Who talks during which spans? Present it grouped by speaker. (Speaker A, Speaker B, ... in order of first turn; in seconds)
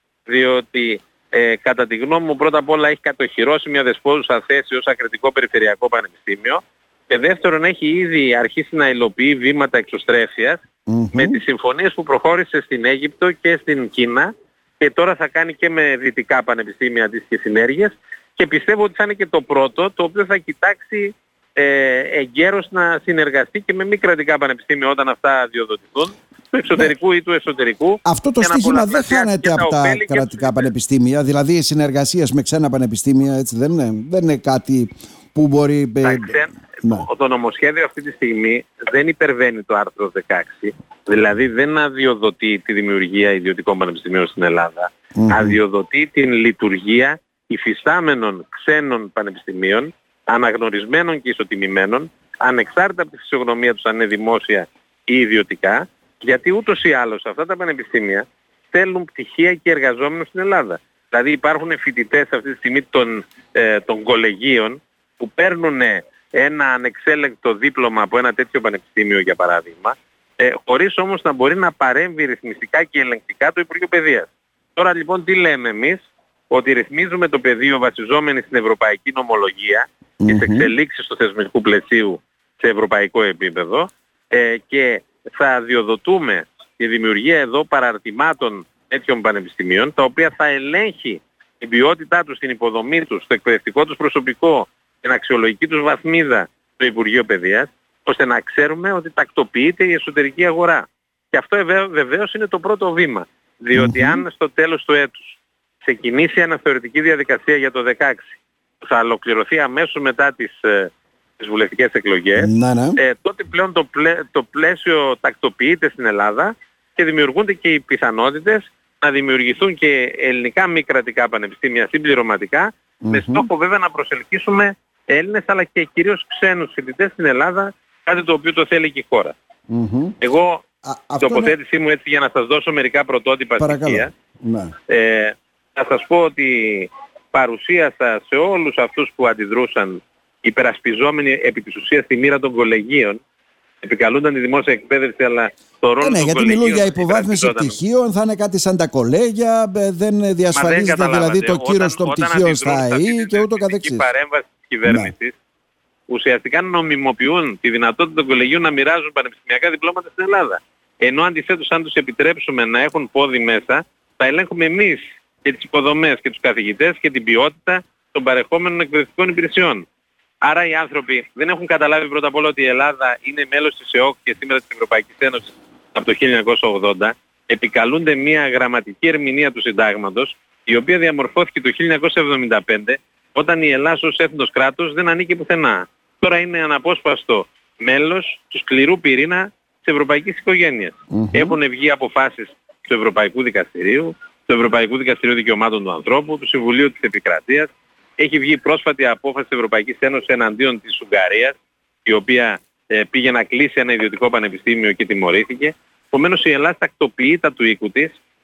Speaker A: 0.2-10.6, 11.1-30.7, 36.0-129.3, 130.2-130.6, 131.2-134.1, 134.9-143.2, 143.8-147.8, 150.5-155.3, 156.1-169.9, 170.4-208.2
Speaker B: 10.9-11.4, 28.0-37.1, 45.2-45.6, 80.2-80.7, 103.7-104.2, 112.4-113.0, 123.0-123.5, 129.7-130.2, 130.8-131.5, 133.6-134.7, 146.0-154.1, 154.8-155.1, 191.1-191.6